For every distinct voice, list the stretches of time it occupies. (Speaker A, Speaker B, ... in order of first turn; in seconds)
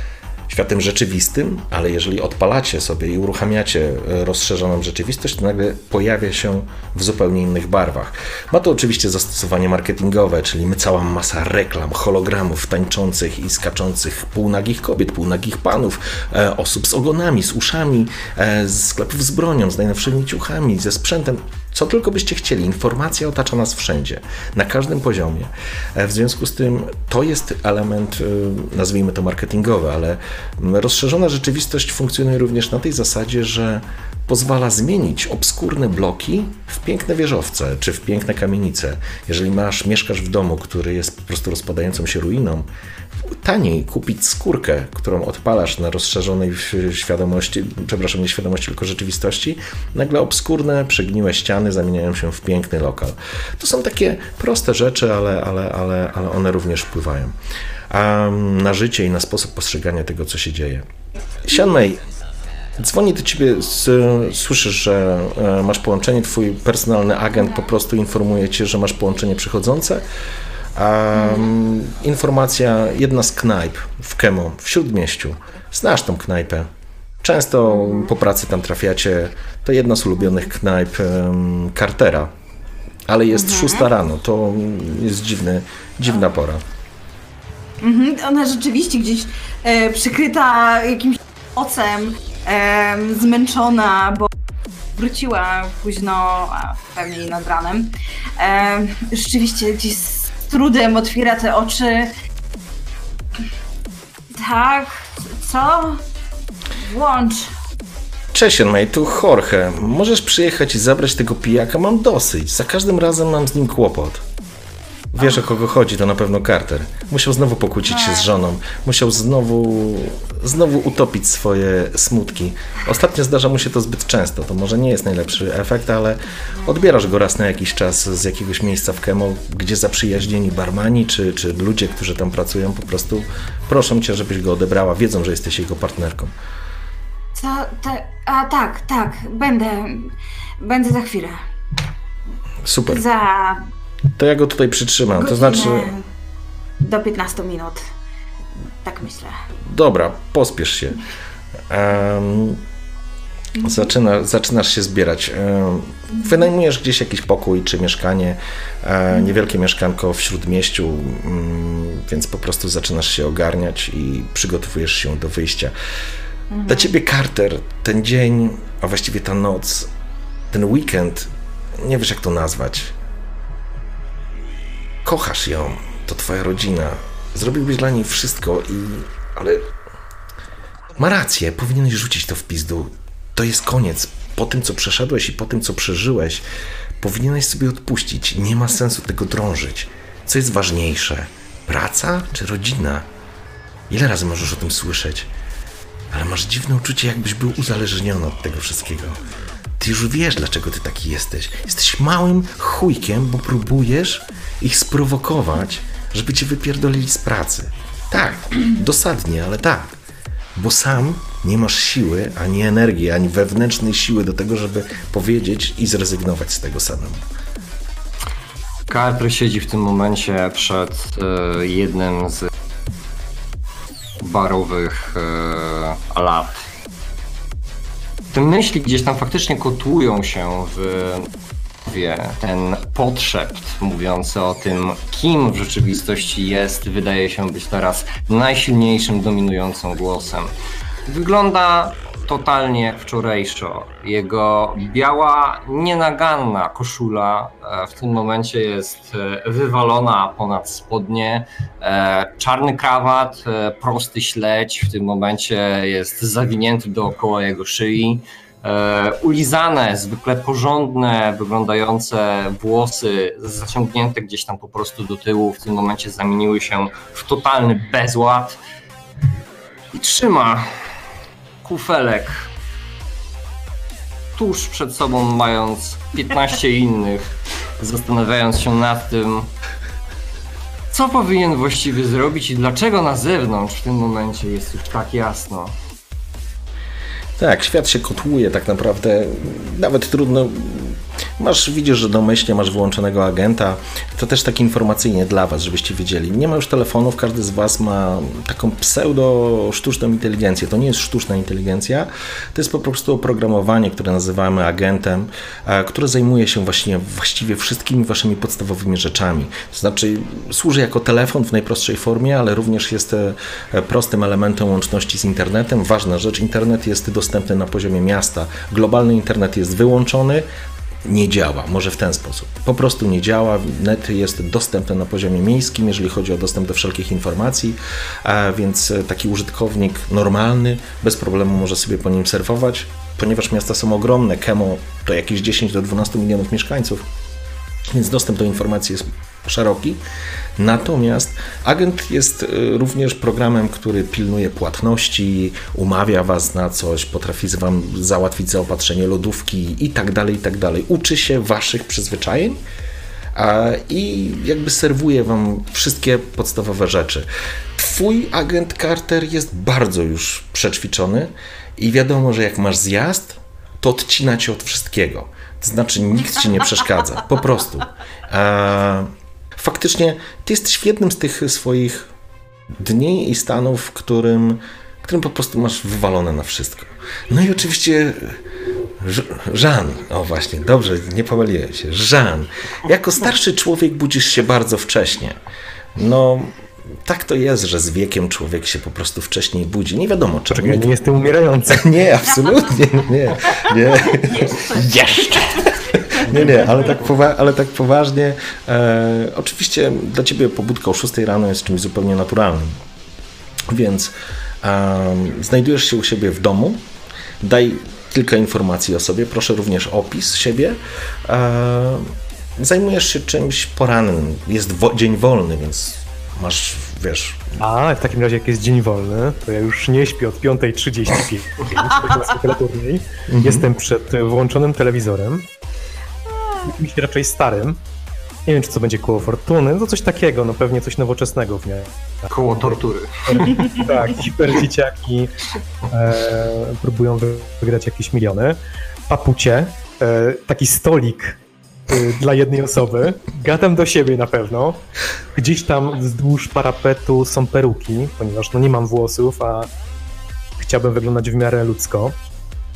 Speaker A: 0.5-42.7, 43.3-57.3, 57.9-60.9, 61.5-62.0, 62.8-70.0, 70.8-76.7, 77.2-82.3, 83.1-86.6, 108.3-114.2, 115.1-136.3, 142.7-143.0, 144.2-145.9, 149.7-151.0, 151.7-152.6, 153.6-165.7, 166.7-169.9, 170.5-172.9, 175.0-179.7, 181.0-186.4, 187.0-193.1, 193.9-195.3, 196.1-199.2, 199.8-209.9, 210.6-217.2, 287.4-320.5, 321.1-337.1, 337.9-340.0, 340.6-352.6, 353.4-372.1, 372.8-385.4, 386.0-391.0, 391.7-402.8, 403.7-406.8, 407.4-417.5, 423.3-423.7
Speaker B: 71.1-71.5, 77.7-78.1, 83.3-83.9, 87.8-94.3, 94.9-102.2, 104.3-106.0, 106.8-107.5, 117.9-118.3, 137.3-141.4, 142.9-143.7, 145.2-146.1, 146.8-147.8, 148.8-149.4, 153.6-153.9, 166.5-166.9, 393.5-396.7, 426.3-426.7
Speaker C: 218.9-222.5, 224.2-226.5, 228.3-231.3, 231.8-240.5, 241.1-268.6, 269.9-270.9, 271.6-272.5, 274.4-279.5, 280.9-285.7, 432.3-433.9
Speaker D: 390.5-392.0, 417.6-425.5, 426.6-427.8, 428.5-435.4, 435.9-444.8, 445.4-449.7, 450.6-452.2